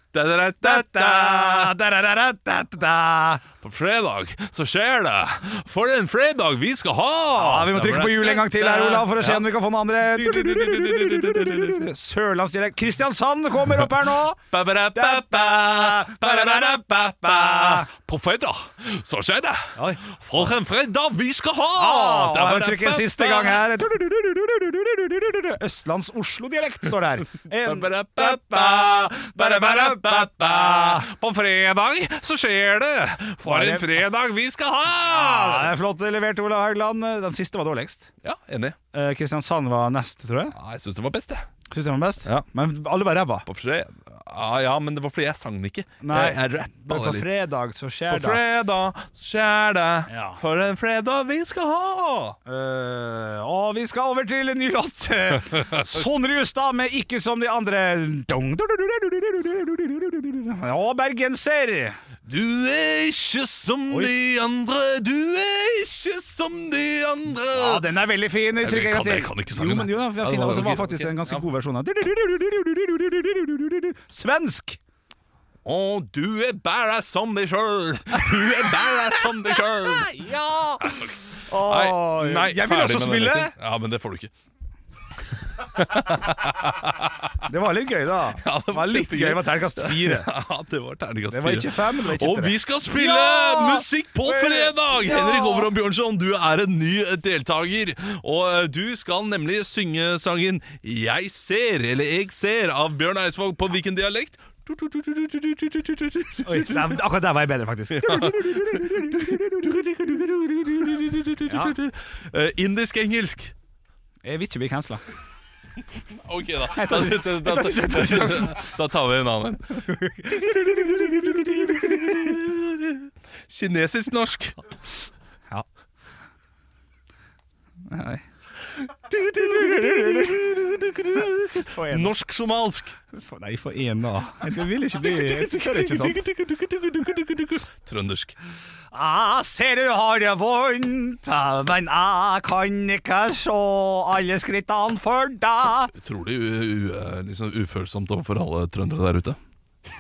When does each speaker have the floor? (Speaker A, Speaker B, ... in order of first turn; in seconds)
Speaker A: 0.1-1.7, 3.6-9.5, 10.0-11.8, 14.5-23.6, 27.3-35.7, 38.2-38.8, 40.5-41.5, 43.4-47.3, 48.1-52.4, 62.2-67.9, 68.6-71.4, 75.6-80.2, 80.8-84.3, 85.6-87.3, 88.4-107.0, 107.9-113.5, 116.2-124.6, 129.1-132.9, 135.0-138.3, 145.9-149.4
Speaker B: 0.6-3.4, 7.3-17.9, 19.7-20.5, 21.7-31.1, 33.4-34.0, 35.0-38.1, 38.9-40.5, 41.7-43.5, 46.0-48.4, 50.1-50.4, 52.5-62.0, 67.5-74.8, 79.8-80.9, 81.5-83.5, 87.4-90.3, 91.3-95.7, 106.4-109.8, 111.5-111.7, 114.2-115.0, 116.7-118.7, 120.0-122.3, 127.9-128.2, 129.1-130.4, 131.6-132.1, 133.1-136.2, 138.9-145.9